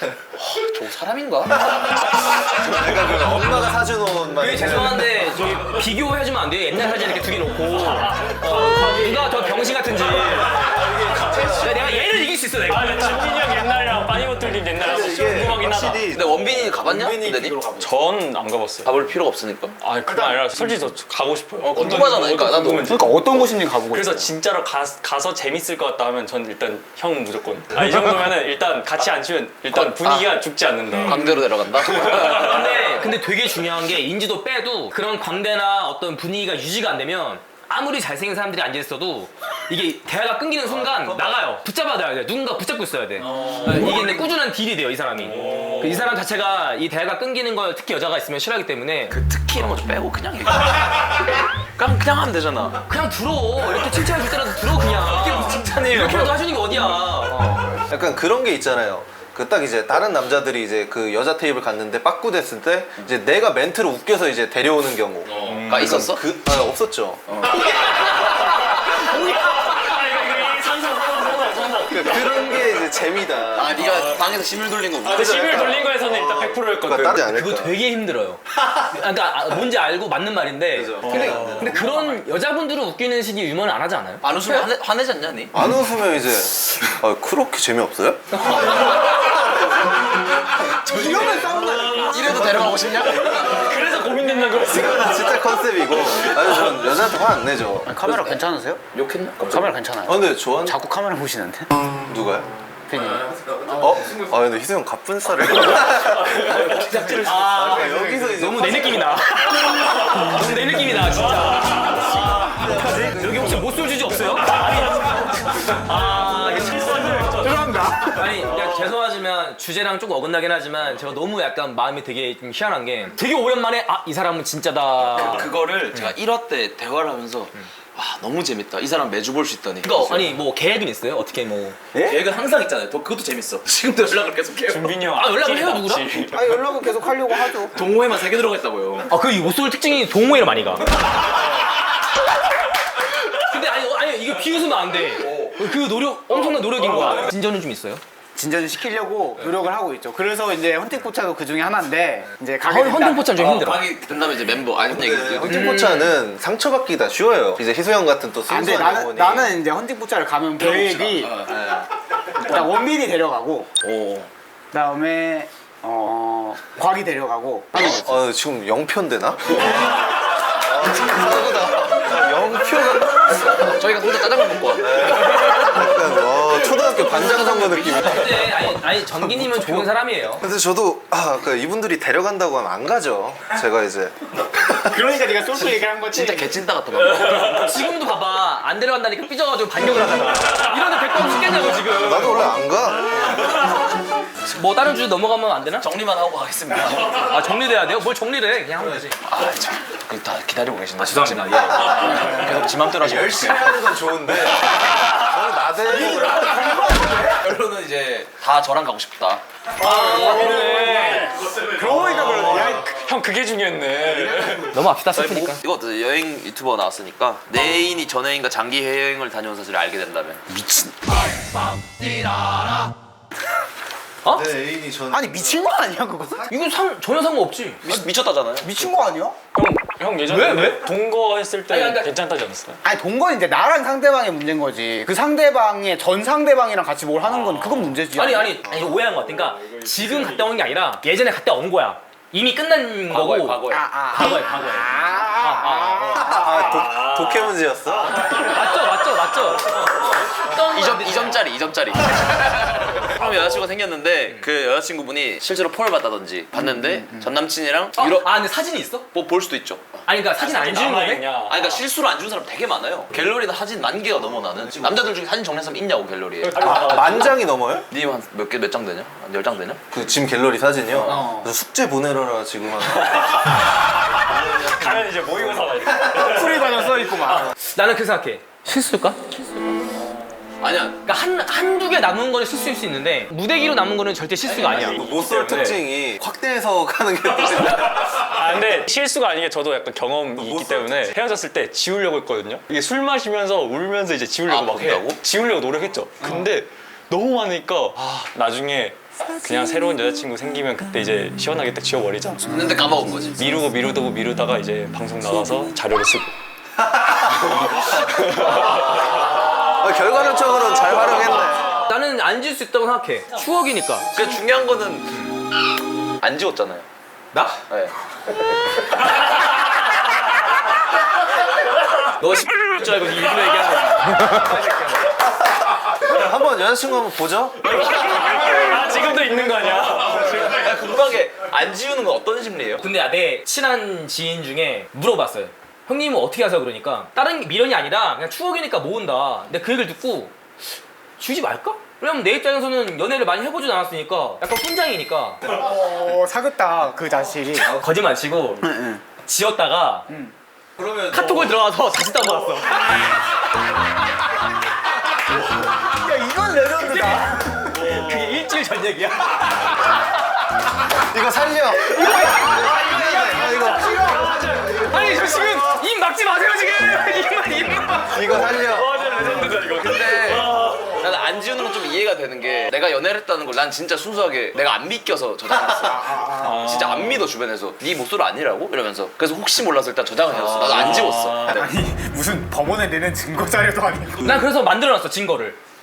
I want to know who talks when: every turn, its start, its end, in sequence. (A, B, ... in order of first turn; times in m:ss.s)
0:00.4-0:01.9 A
0:01.7-0:05.3 B
0:04.4-0:10.8 C
0:07.8-0:11.6 D
0:10.7-0:11.9 B
0:11.5-0:13.1 C
0:12.6-0:16.1 D
0:14.8-0:17.9 B
0:16.1-0:17.6 A
0:17.8-0:19.0 D
0:18.8-0:19.8 A
0:19.8-0:31.4 D
0:20.1-0:20.5 E
0:21.6-0:23.0 A
0:22.8-0:24.3 E
0:29.7-0:30.3 A
0:31.0-0:33.0 A
0:32.2-0:49.2 C
0:40.7-0:41.3 A
0:43.2-0:44.2 A
0:43.4-0:43.7 D
0:45.3-0:46.1 D
0:49.1-0:51.2 A
0:51.8-0:52.8 A
0:52.9-0:57.8 C
0:55.1-0:56.3 A
0:57.9-1:07.2 B
1:05.3-1:06.2 A
1:05.4-1:06.1 D
1:07.3-1:07.6 A
1:08.9-1:12.4 D
1:09.0-1:09.4 C
1:11.9-1:13.8 B
1:13.6-1:15.7 A
1:15.0-1:17.3 D
1:15.2-1:17.8 B
1:17.3-1:24.7 C
1:20.7-1:22.2 B
1:21.0-1:21.8 D
1:24.2-1:25.6 A
1:25.5-1:28.4 B
1:28.3-1:29.1 C
1:30.8-1:32.9 E
1:30.9-1:31.4 C
1:31.9-1:33.8 A
1:33.3-1:35.4 D
1:34.6-1:38.0 B
1:37.9-1:38.8 E
1:38.9-1:39.8 A
1:39.4-1:41.7 E
1:40.1-1:40.8 B
1:42.0-1:42.5 B
1:42.9-1:44.0 E
1:43.8-1:49.1 B
1:46.4-1:47.2 A
1:46.8-1:48.5 E
1:47.2-1:57.3 C
1:51.3-1:52.2 D
1:52.4-1:53.9 B
1:55.7-1:57.7 D
1:57.4-1:58.3 E
1:58.1-2:06.1 C
2:05.2-2:10.4 A
2:09.8-2:12.2 C
2:12.0-2:15.0 A
2:14.7-2:16.6 D
2:15.1-2:16.1 C
2:16.3-2:17.7 E
2:17.7-2:19.1 A
2:19.1-2:20.9 C
2:23.4-2:28.0 C
2:25.3-2:25.5 A
2:28.4-2:33.3 E
2:32.7-2:33.8 C
2:33.4-2:35.7 A
2:34.9-2:39.6 B
2:35.4-2:36.2 C
2:38.5-2:41.4 E
2:40.6-2:41.9 A
2:42.4-2:43.7 E
2:43.8-2:44.3 A
2:44.7-2:48.2 E
2:47.8-2:49.7 B
2:50.5-2:53.5 B
2:53.5-2:55.7 A
2:54.8-3:05.0 B
2:57.1-3:00.4 C
3:04.8-3:06.5 E
3:05.5-3:07.7 A
3:07.2-3:12.6 C
3:12.0-3:13.5 B
3:14.4-3:15.9 C
3:15.8-3:17.4 A
3:17.2-3:19.2 C
3:19.2-3:23.8 A
3:21.0-3:22.1 C
3:22.8-3:26.8 B
3:26.0-3:29.4 A
3:26.2-3:27.1 E
3:29.8-3:31.3 C
3:29.8-3:32.9 E
3:29.8-3:34.7 D
3:34.7-3:35.6 C
3:35.1-3:40.4 A
3:40.5-3:40.9 E
3:44.3-3:45.6 B
3:45.1-3:46.5 E
3:46.5-3:47.8 C
3:47.8-3:48.9 A
3:48.6-3:49.4 E
3:49.6-3:52.8 D
3:50.3-3:50.9 C
3:51.7-3:52.1 C
3:52.8-3:58.6 E
3:57.2-3:58.0 D
3:58.1-4:06.3 C
3:58.7-3:58.9 B
3:59.0-4:00.5 D
4:03.1-4:03.9 A
4:03.7-4:06.9 E
4:06.2-4:08.3 B
4:06.6-4:07.5 D
4:08.2-4:11.4 C
4:10.5-4:18.3 A
4:16.6-4:17.3 E
4:18.0-4:19.1 C
4:19.1-4:20.1 A
4:20.1-4:21.3 C
4:20.4-4:21.8 D
4:21.4-4:27.0 A
4:24.6-4:25.0 B
4:26.4-4:27.4 D
4:26.6-4:27.9 B
4:27.9-4:29.8 A
4:29.9-4:33.2 B
4:31.0-4:31.5 E
4:33.0-4:33.6 D
4:34.2-4:37.1 D
4:36.1-4:37.5 E
4:37.7-4:39.3 C
4:40.6-4:41.0 A
4:41.0-4:45.8 C
4:44.6-4:45.8 D
4:44.7-4:48.2 B
4:48.1-5:02.6 D
4:50.4-4:51.1 B
4:54.5-4:55.2 A
5:02.5-5:03.4 A
5:03.4-5:06.3 D
5:07.0-5:07.7 B
5:09.8-5:11.8 B
5:10.4-5:11.5 A
5:11.7-5:14.1 C
5:14.1-5:15.2 A
5:16.2-5:16.9 A
5:22.2-5:25.0 C
5:25.4-5:27.9 B
5:27.7-5:30.5 D
5:29.9-5:32.8 A
5:32.8-5:40.3 C
5:41.2-5:45.4 C
5:45.4-5:47.7 E
5:47.7-5:48.7 C
5:48.6-5:49.0 E
5:49.2-5:50.1 C
5:51.0-5:53.1 C
5:55.8-5:57.7 E
5:56.8-6:00.1 C
6:01.0-6:04.1 B
6:02.0-6:02.2 C
6:02.0-6:05.6 E
6:03.5-6:04.7 D
6:04.8-6:08.2 C
6:08.1-6:09.0 B
6:08.6-6:11.0 D
6:09.8-6:21.7 A
6:15.6-6:16.8 E
6:16.4-6:17.3 D
6:21.5-6:24.4 E
6:24.2-6:25.6 C